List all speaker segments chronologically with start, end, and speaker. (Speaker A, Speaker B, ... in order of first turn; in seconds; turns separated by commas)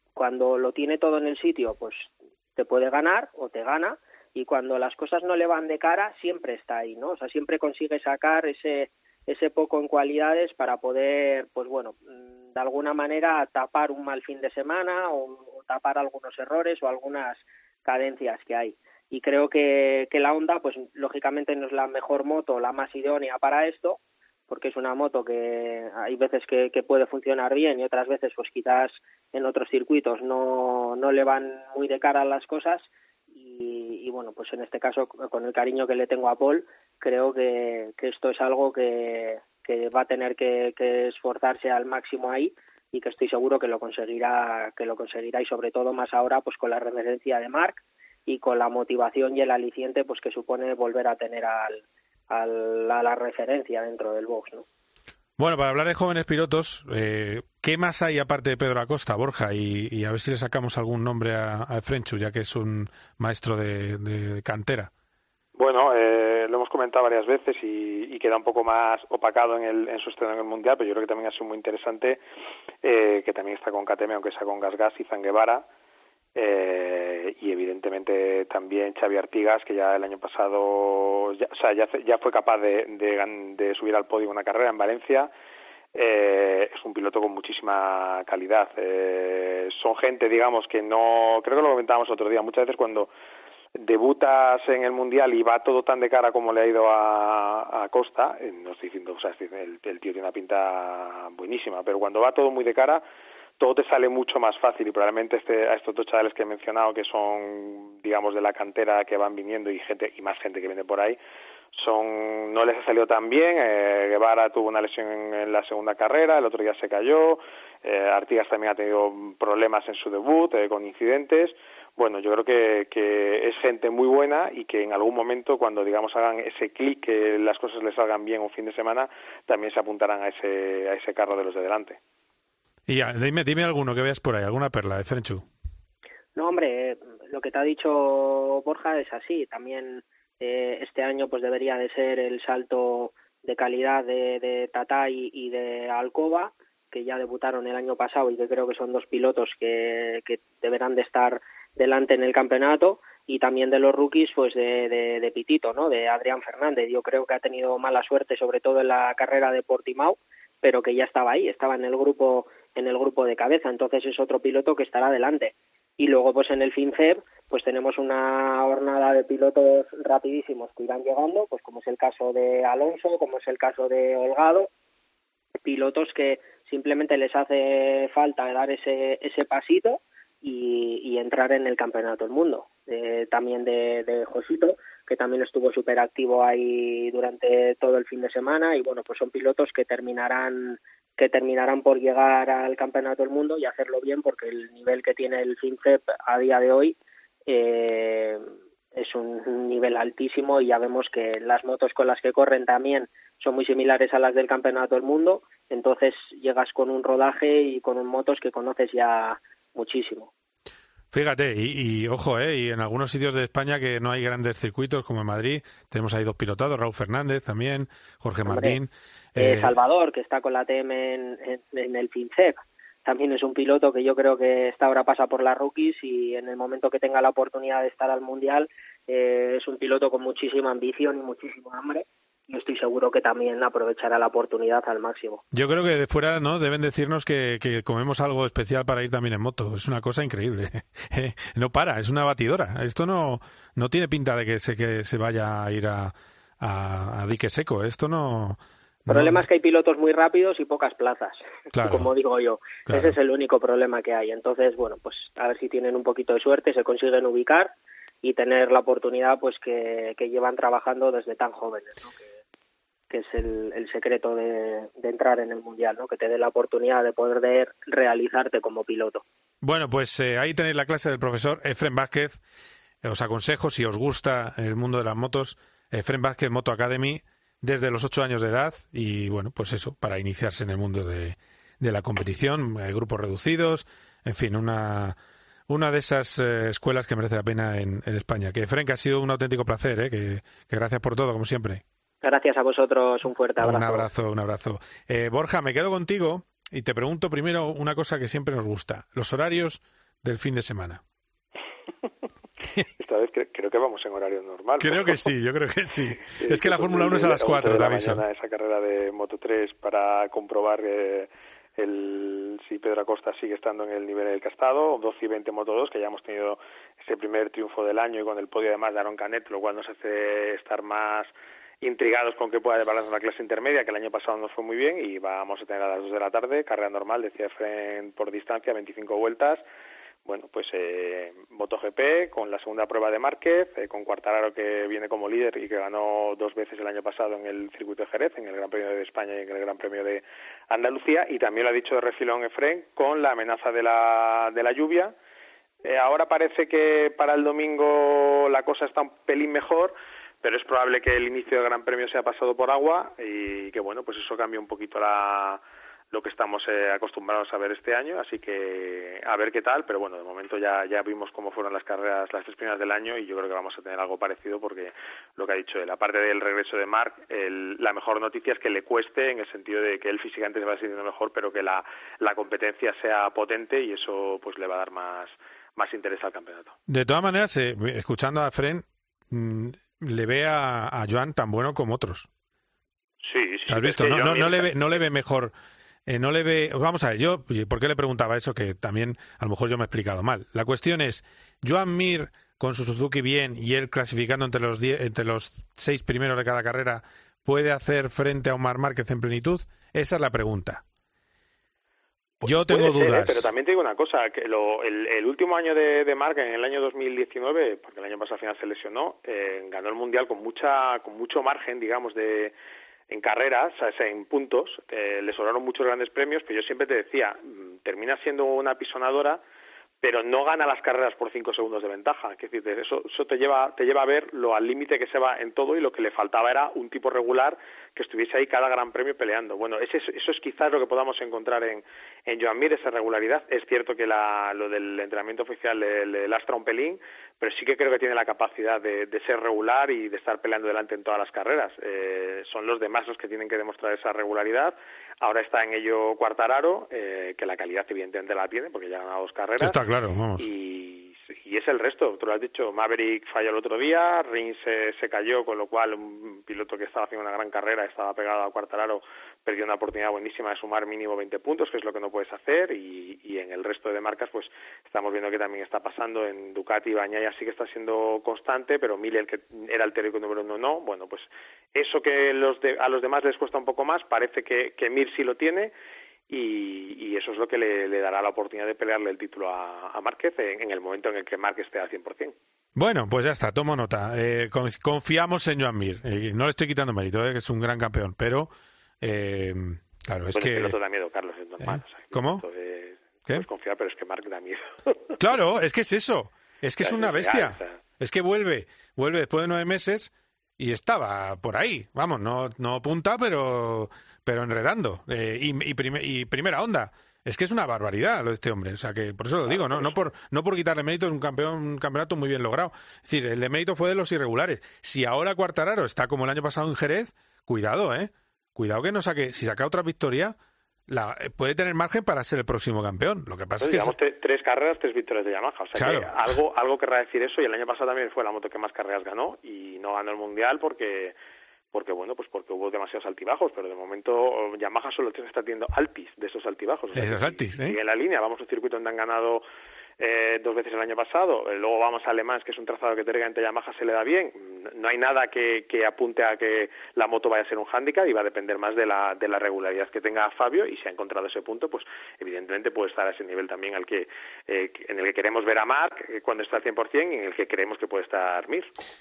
Speaker A: 0.1-54.6, Speaker B: 55.4-64.9, Speaker C: 65.6-72.2, Speaker C: 72.8-75.7, Speaker C: 76.3-85.3, Speaker C: 86.0-93.1, Speaker C: 93.8-103.0, Speaker C: 103.6-111.2, Speaker C: 111.7-132.0, Speaker B: 132.9-135.4, Speaker A: 136.3-174.7, Speaker A: 175.6-198.4, Speaker A: 198.9-210.3, Speaker B: 211.1-219.8, Speaker A: 218.5-218.8, Speaker A: 219.4-235.4, Speaker B: 235.5-249.4, Speaker A: 249.1-257.7, Speaker B: 251.8-252.1, Speaker B: 252.9-253.2, Speaker A: 258.2-262.3, Speaker A: 263.1-269.2, Speaker B: 269.6-272.4, Speaker B: 273.0-285.2, Speaker B: 285.7-291.8, Speaker A: 292.2-294.1, Speaker B: 293.6-301.0, Speaker C: 303.0-305.3, Speaker B: 304.8-308.2, Speaker C: 306.3-329.6, Speaker C: 330.2-345.1, Speaker C: 345.8-355.6, Speaker C: 356.1-376.8, Speaker B: 376.9-382.3, Speaker C: 383.2-385.0, Speaker B: 383.7-385.5, Speaker B: 386.1-400.8, Speaker C: 402.4-412.5, Speaker B: 402.4-403.5, Speaker C: 413.1-419.4, Speaker C: 420.0-449.8, Speaker B: 449.6-450.5, Speaker C: 450.4-475.7, Speaker C: 476.3-482.4, Speaker B: 482.8-490.8, Speaker C: 490.3-495.1, Speaker B: 491.6-492.4, Speaker B: 495.2-520.4, Speaker C: 496.8-497.8, Speaker C: 509.5-509.9, Speaker B: 520.9-523.9, Speaker C: 523.6-531.1, Speaker B: 525.8-526.4, Speaker C: 531.7-539.4, Speaker B: 537.0-537.8, Speaker C: 540.0-558.7